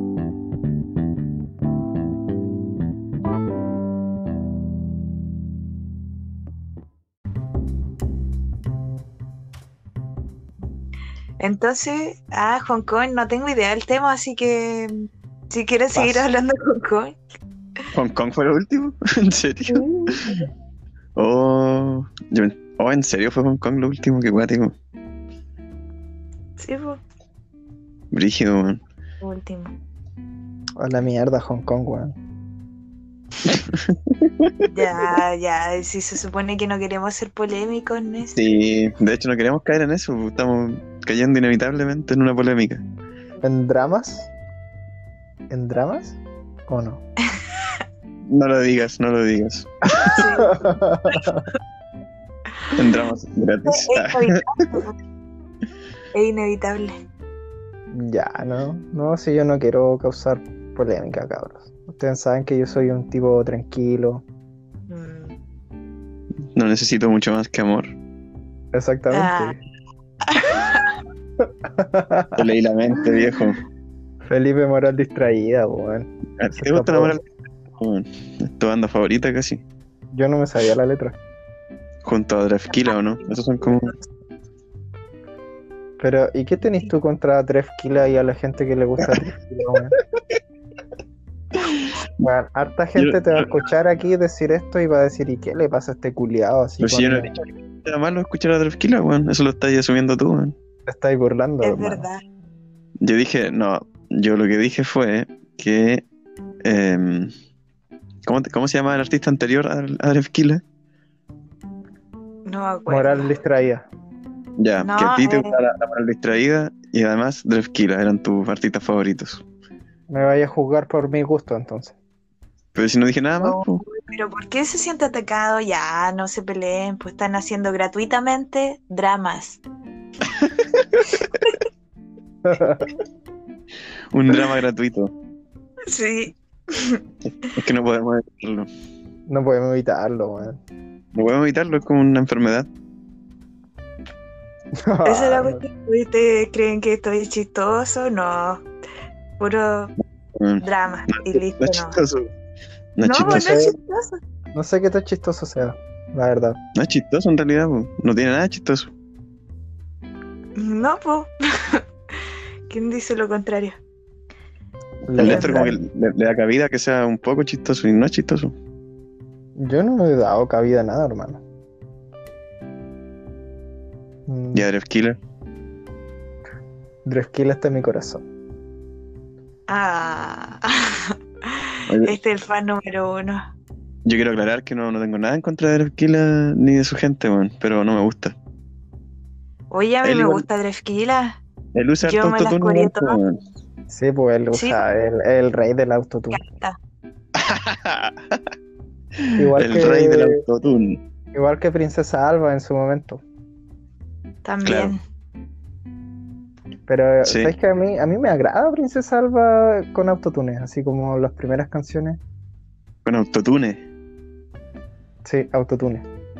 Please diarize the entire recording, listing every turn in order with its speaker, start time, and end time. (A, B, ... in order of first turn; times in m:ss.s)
0:11.4-0:17.2 A
0:16.0-0:16.2 B
0:17.9-0:20.4 B
0:19.7-0:20.4 A
0:21.2-0:24.7 B
0:26.6-0:27.0 A
0:28.1-0:28.8 B
0:29.2-0:29.7 A
0:30.8-0:32.2 C
0:33.4-0:35.2 B
0:34.7-0:38.4 A
0:38.4-0:42.8 B
0:43.4-0:44.3 C
0:45.5-0:47.0 C
0:48.3-0:50.2 B
0:50.0-0:51.5 C
0:50.0-0:50.6 A
0:52.7-0:54.4 B
0:53.6-0:54.9 A
0:56.1-0:57.0 A
0:57.9-1:04.2 C
1:04.9-1:05.4 A
1:06.6-1:07.9 B
1:08.7-1:09.6 C
1:09.1-1:09.6 A
1:10.3-1:10.9 A
1:11.8-1:12.4 C
1:12.4-1:13.6 B
1:14.2-1:17.2 C
1:16.4-1:17.2 B
1:17.8-1:19.6 B
1:20.1-1:21.2 C
1:22.0-1:24.0 B
1:26.0-1:30.0 C
1:31.6-1:31.9 B
1:32.2-1:37.3 C
1:33.0-1:33.5 B
1:36.8-1:40.6 B
1:40.9-1:42.1 C
1:41.6-1:42.2 A
1:43.0-1:46.0 B
1:46.6-1:47.3 B
1:48.3-1:50.6 B
1:52.5-1:53.3 A
1:52.9-1:53.9 C
1:54.6-1:59.4 B
1:54.8-1:55.6 A
2:00.1-2:02.0 C
2:02.8-2:03.8 B
2:03.4-2:09.6 A
2:12.4-2:12.9 C
2:14.1-2:15.1 B
2:15.9-2:17.0 A
2:17.4-2:18.7 B
2:19.3-2:20.6 C
2:21.1-2:22.7 B
2:24.8-2:25.6 C
2:25.0-2:28.6 A
2:29.4-2:29.9 A
2:30.4-2:32.3 B
2:30.6-2:32.0 A
2:33.0-2:33.7 B
2:33.0-2:34.2 A
2:33.2-2:33.8 C
2:34.5-2:36.6 C
2:36.8-2:38.9 B
2:40.6-2:41.8 A
2:42.7-2:43.8 A
2:45.1-2:45.8 C
2:45.2-2:48.6 B
2:45.2-2:45.6 A
2:49.6-2:51.4 C
2:54.3-2:54.7 C
2:54.5-2:55.2 B
2:57.0-2:58.2 C
2:59.7-3:03.4 A
3:01.9-3:02.2 B
3:04.0-3:08.4 B
3:09.7-3:11.4 A
3:10.0-3:10.5 B
3:11.8-3:13.4 B
3:12.0-3:13.2 A
3:13.9-3:16.4 C
3:14.5-3:14.8 A
3:16.3-3:16.8 A
3:17.4-3:18.4 B
3:19.2-3:21.0 B
3:19.4-3:20.4 C
3:21.3-3:23.2 C
3:24.4-3:25.0 A
3:24.6-3:25.0 B
3:26.9-3:32.2 C
3:27.2-3:27.5 B
3:33.0-3:33.8 B
3:35.2-3:36.1 C